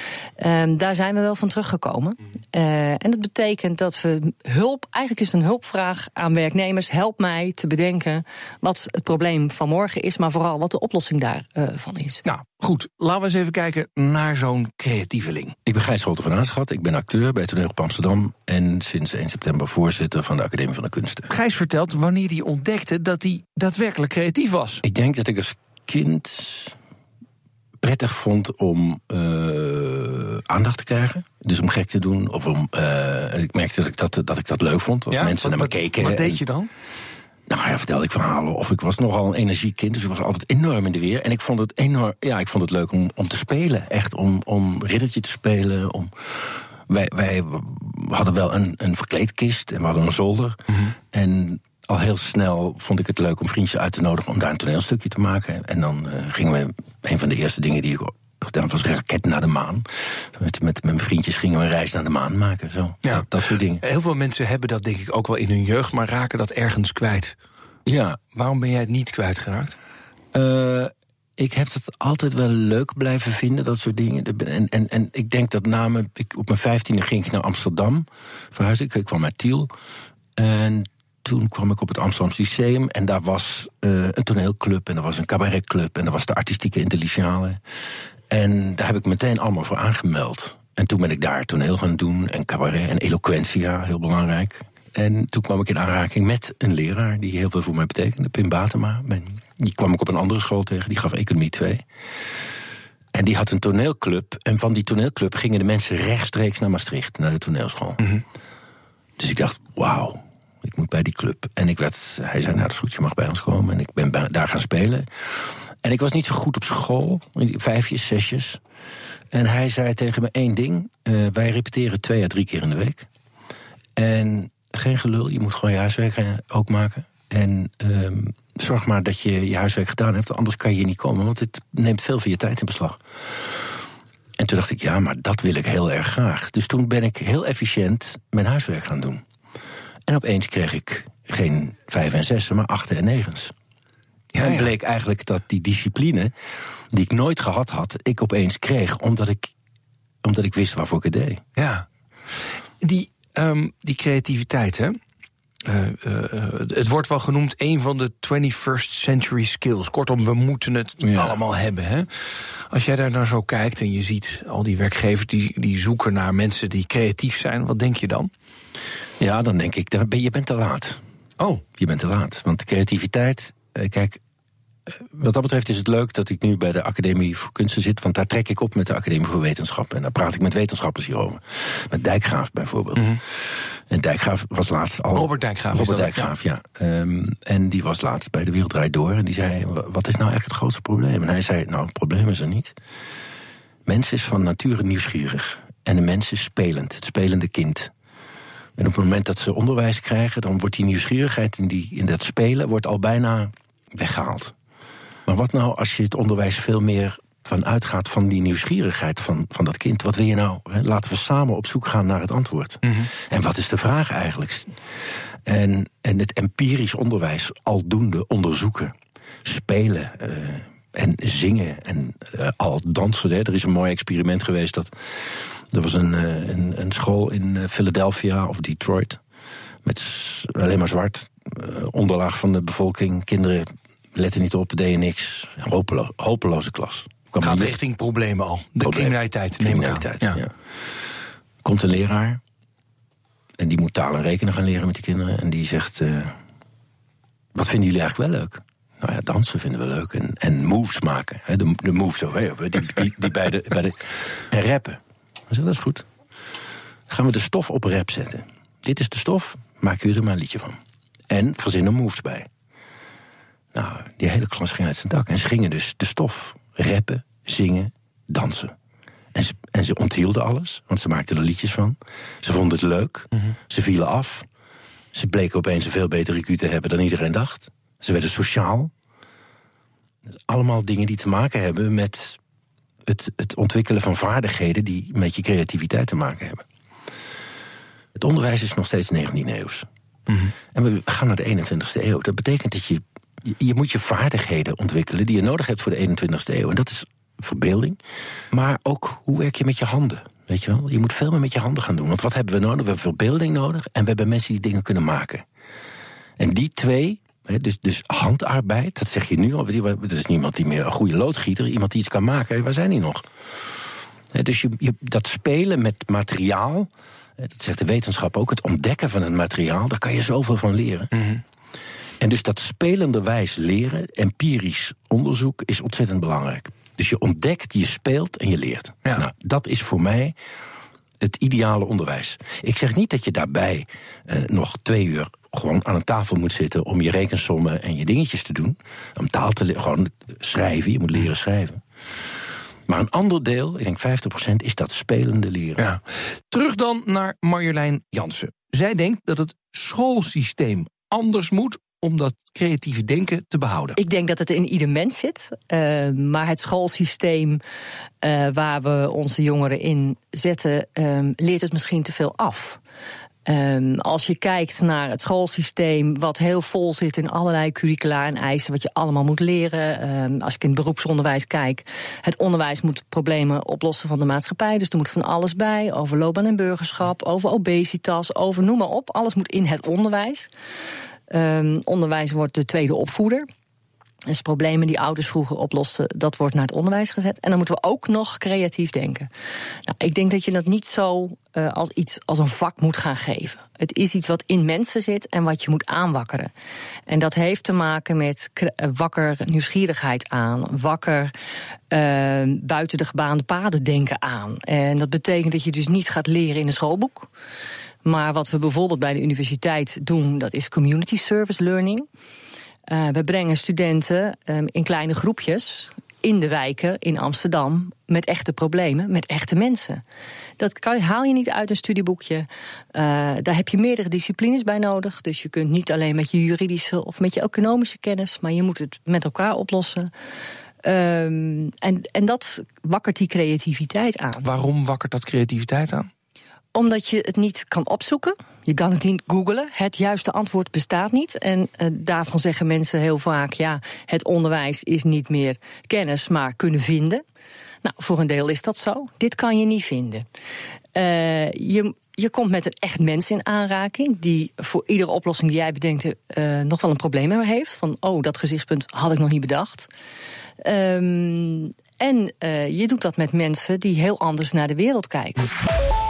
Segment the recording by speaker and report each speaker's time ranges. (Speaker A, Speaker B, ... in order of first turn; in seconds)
Speaker A: 0.4-12.2, 354.0-357.6, 358.2-362.8, 363.5-380.5, 381.3-383.5, 384.3-389.3, 389.9-396.5, 397.1-401.3, 401.9-407.3, 408.1-412.1, 412.9-420.0, 420.6-430.1, 430.8-434.5, 436.8-447.2, 447.8-450.2, 450.9-459.9, 460.6-465.4
Speaker B: 12.2-15.6, 21.3-24.8, 35.1-36.7, 63.8-67.4, 68.3-69.8, 144.3-144.7, 151.6-151.8, 152.8-155.0, 155.7-168.3, 185.1-186.3, 237.4-240.4, 321.1-321.4, 345.8-354.0, 434.4-436.1
Speaker C: 15.7-21.3, 24.8-26.8, 27.8-36.4, 37.5-63.8, 67.9-68.2, 70.3-79.7, 80.4-87.6, 88.3-101.9, 103.1-108.0, 109.2-118.6, 119.3-123.1, 124.0-133.0, 134.4-139.2, 140.1-143.5, 144.4-146.3, 146.9-149.5, 150.2-151.4, 161.0-161.4, 169.2-171.0, 171.8-174.2, 174.9-183.2, 183.9-192.7, 193.9-197.9, 198.8-204.5, 205.3-214.8, 215.4-218.9, 219.4-229.2, 229.8-237.8, 238.8-240.5, 241.6-242.4, 243.6-246.3, 247.6-256.1, 257.1-260.8, 261.3-262.5, 263.7-268.7, 269.3-274.5, 275.1-278.9, 280.5-282.4, 283.1-286.6, 288.1-289.9, 290.7-298.0, 298.5-305.4, 306.4-313.3, 314.3-321.1, 322.2-330.4, 331.2-341.8, 342.9-345.9